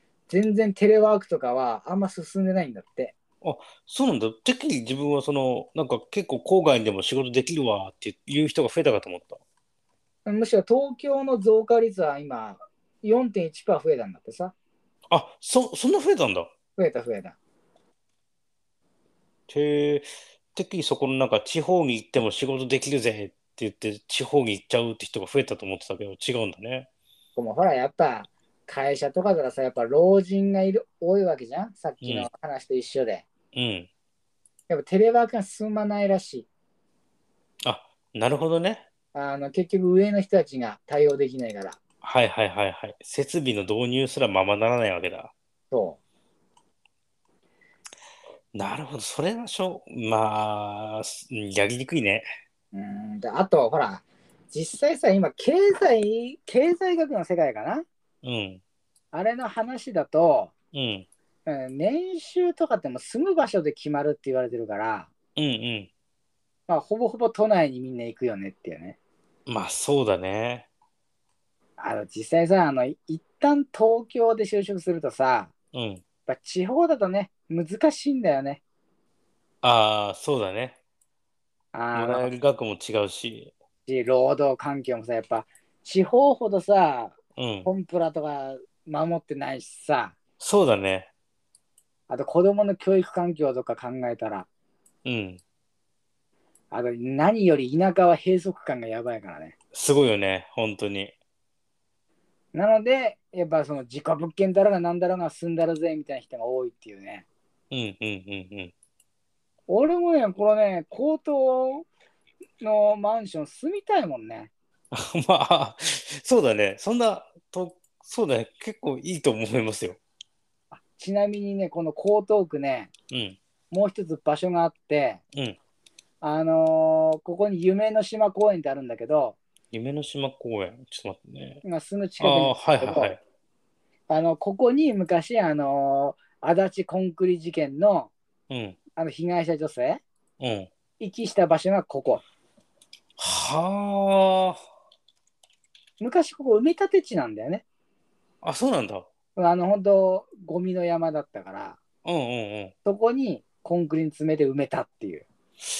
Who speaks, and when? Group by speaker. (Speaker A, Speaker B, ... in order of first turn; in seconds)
Speaker A: 0.3-3.1, 10.2-14.5, 16.8-17.4, 27.4-33.2, 34.7-36.5, 39.1-41.8, 45.7-46.0, 52.7-57.9, 59.1-60.5, 61.5-65.1, 66.7-69.0, 71.8-75.5, 76.3-78.6, 81.7-82.3, 83.9-90.2, 92.1-94.5, 96.7-99.5, 102.5-107.2, 109.7-111.9, 112.6-114.5, 120.7-122.9, 123.7-125.2, 126.2-129.4, 131.6-133.2, 134.1-138.1, 139.0-140.0, 141.0-142.2, 146.0-147.6, 149.3-151.8, 152.8-155.2
Speaker B: 3.4-9.4, 15.1-16.5, 19.5-26.9, 32.0-32.3, 33.5-33.9, 37.6-38.9, 42.0-45.3, 48.5-52.2, 58.2-58.6, 60.7-61.1, 65.3-65.9, 69.5-70.7, 75.7-76.0, 79.6-80.8, 81.9-83.5, 87.4-87.7, 90.4-91.1, 95.0-95.4, 99.7-101.1, 107.7-108.7, 114.9-120.0, 123.1-123.4, 129.7-131.6, 132.2-133.2, 138.5-138.8, 140.4-140.7, 143.2-144.6, 148.4-149.1, 152.0-152.7